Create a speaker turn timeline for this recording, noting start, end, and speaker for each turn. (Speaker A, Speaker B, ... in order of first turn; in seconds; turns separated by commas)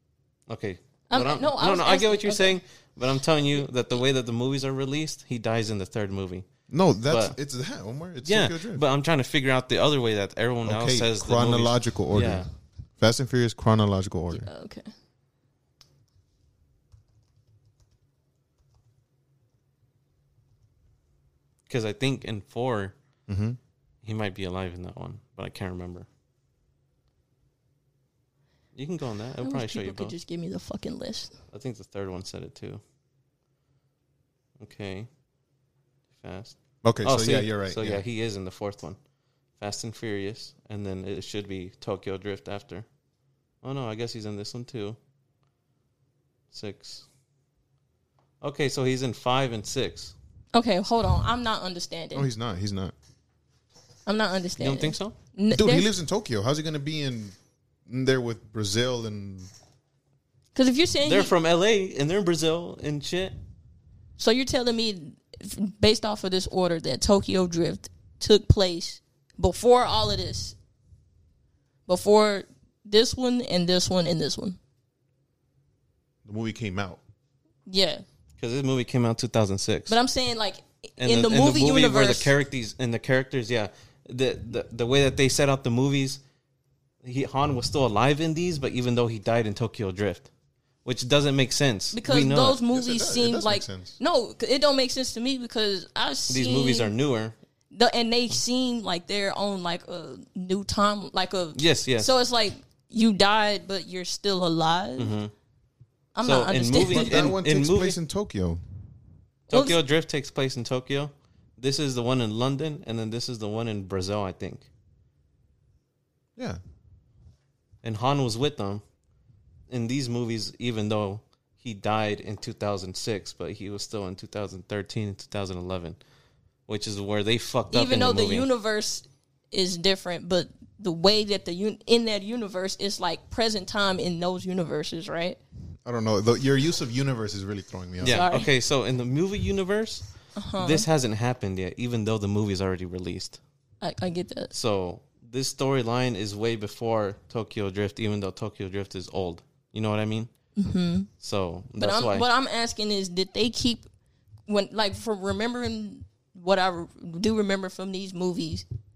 Speaker A: 0.5-6.5, Speaker B: 1.1-2.6, Speaker B: 3.6-4.0, Speaker C: 6.7-8.8, Speaker A: 7.1-7.4, Speaker A: 8.2-12.5, Speaker C: 10.6-14.5, Speaker B: 14.3-14.9, Speaker A: 21.7-22.9, Speaker C: 23.3-23.6, Speaker A: 24.0-26.1, Speaker A: 28.7-30.1, Speaker B: 29.4-31.3, Speaker A: 31.5-32.8, Speaker A: 34.6-35.1, Speaker A: 36.1-39.0, Speaker C: 36.8-38.0, Speaker A: 39.6-42.9, Speaker A: 43.6-45.0, Speaker A: 46.5-47.0, Speaker A: 48.4-50.1, Speaker B: 50.5-52.3, Speaker C: 52.1-52.9, Speaker B: 54.0-55.9, Speaker A: 54.6-55.1, Speaker C: 55.5-57.3, Speaker C: 57.9-59.5, Speaker B: 60.5-61.3, Speaker A: 61.0-63.4, Speaker B: 64.2-70.5, Speaker B: 71.9-74.6, Speaker C: 76.2-77.0, Speaker B: 77.7-78.0, Speaker A: 78.4-80.0, Speaker B: 79.9-82.3, Speaker A: 81.0-86.2, Speaker A: 87.0-90.3, Speaker A: 90.8-92.6, Speaker B: 91.9-96.9, Speaker C: 92.7-94.0, Speaker A: 96.3-97.3, Speaker B: 97.7-105.1, Speaker A: 101.5-102.1, Speaker A: 105.0-105.3, Speaker B: 106.1-107.2, Speaker A: 106.2-108.0, Speaker C: 106.9-108.6, Speaker B: 109.5-109.8, Speaker A: 109.5-114.7, Speaker A: 117.8-118.8, Speaker A: 119.7-126.0, Speaker A: 126.7-128.5, Speaker B: 127.7-135.4, Speaker C: 135.8-138.2, Speaker A: 138.0-140.1, Speaker B: 138.1-138.5, Speaker B: 140.3-140.8, Speaker A: 140.6-143.4, Speaker B: 143.8-144.5, Speaker A: 144.5-150.3, Speaker B: 150.6-151.1, Speaker A: 151.2-152.2, Speaker B: 151.8-153.9, Speaker B: 154.5-158.6